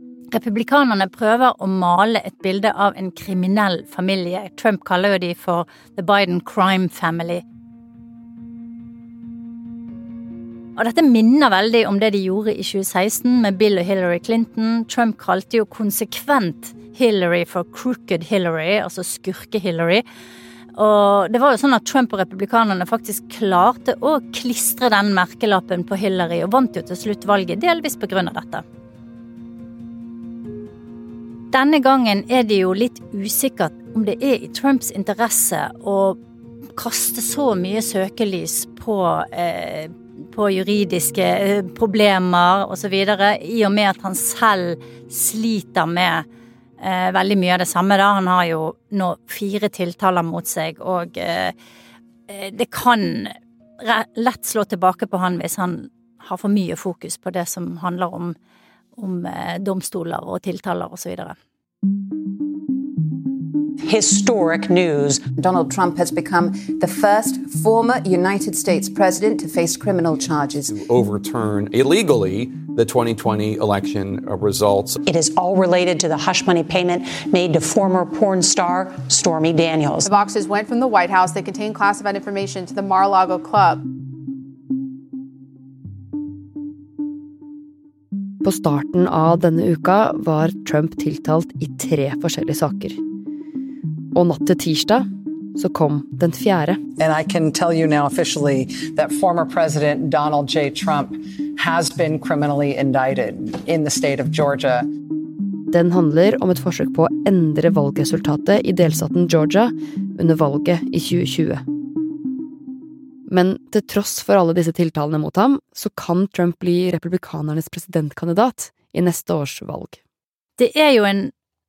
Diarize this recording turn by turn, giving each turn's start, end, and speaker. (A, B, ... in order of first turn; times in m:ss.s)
0:00.3-0:07.4 A
0:10.8-0:20.0 A
0:20.7-0:28.6 A
0:31.5-0:36.2 A
0:36.8-0:46.2 A
0:46.8-0:51.5 A
0:52.3-0:58.3 A
0:58.9-1:01.3 A
1:03.8-1:05.3 B
1:05.3-1:10.7 C
1:10.6-1:15.0 D
1:15.0-1:20.1 B
1:20.0-1:23.8 E
1:28.4-1:33.0 F
1:34.1-1:36.8 F
1:37.0-1:44.8 G
1:45.7-1:51.6 F
1:53.3-2:00.0 F
2:00.6-2:01.3 A